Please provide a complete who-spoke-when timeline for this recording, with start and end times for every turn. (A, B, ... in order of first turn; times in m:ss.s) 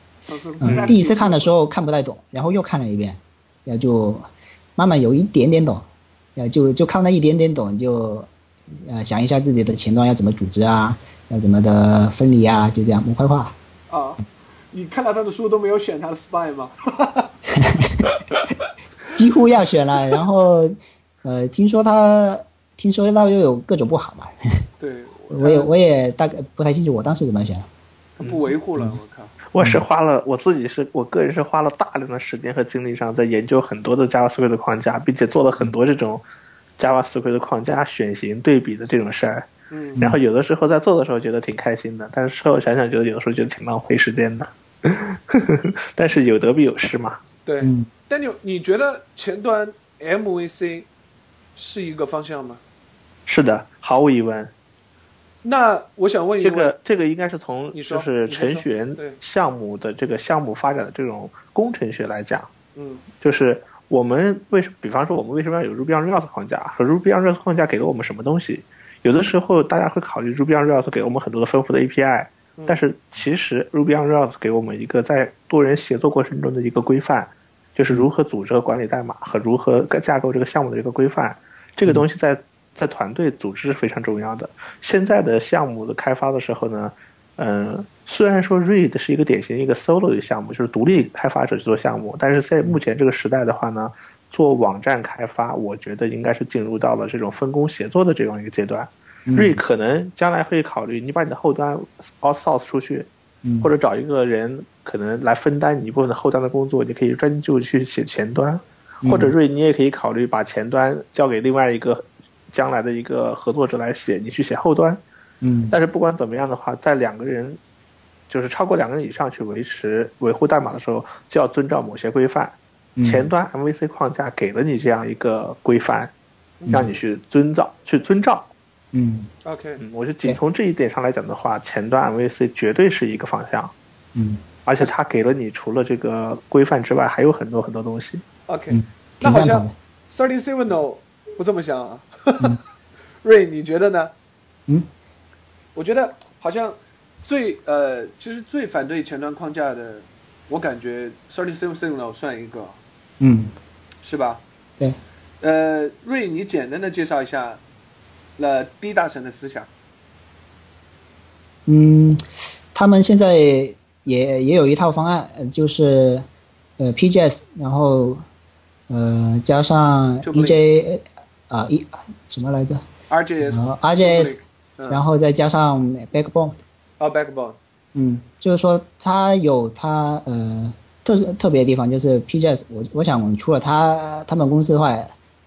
0:00.2-0:01.5 A
0:00.6-0:08.3 B
0:00.6-0:00.9 C
0:08.8-0:13.5 B
0:13.9-0:17.3 A
0:17.5-0:18.0 B
0:18.0-0:18.5 A
0:19.1-0:24.6 B
0:24.8-0:25.7 A
0:25.3-0:27.7 B
0:28.2-0:29.3 A
0:28.2-0:28.5 C
0:29.5-0:36.2 C
0:29.6-0:29.8 B
0:36.8-0:39.5 C
0:39.7-0:40.0 A
0:40.0-0:47.2 C
0:47.4-0:50.9 A
0:47.6-0:47.9 B
0:51.6-0:52.6 A
0:53.3-0:54.5 C
0:55.4-0:56.7 A
0:56.4-1:02.5 C
0:57.7-0:59.2 A
1:02.7-1:03.0 A
1:03.2-1:43.1 C
1:12.6-1:12.8 A
1:39.3-1:39.6 B
1:43.4-1:43.7 B
1:43.6-1:55.0 C
1:49.0-1:49.3 B
1:55.4-1:55.7 B
1:55.7-1:57.6 C
1:58.3-2:06.1 C
2:03.0-2:03.3 B
2:06.6-2:06.9 A
2:06.7-2:08.5 C
2:08.9-2:09.3 B
2:09.4-2:09.8 A
2:09.8-2:13.7 C
2:14.1-2:14.4 B
2:14.6-2:18.2 C
2:18.5-2:22.6 A
2:18.7-2:19.7 B
2:23.2-2:24.1 A
2:25.7-2:32.8 A
2:33.2-2:33.5 B
2:34.0-2:34.4 A
2:35.4-2:37.6 A
2:38.4-2:39.7 A
2:41.6-2:46.2 B
2:46.8-2:48.2 B
2:48.9-2:52.8 B
2:50.2-2:50.6 A
2:53.1-2:55.0 A
2:53.4-2:54.4 B
2:54.9-2:56.6 B
2:57.0-2:57.6 A
2:57.9-3:05.1 B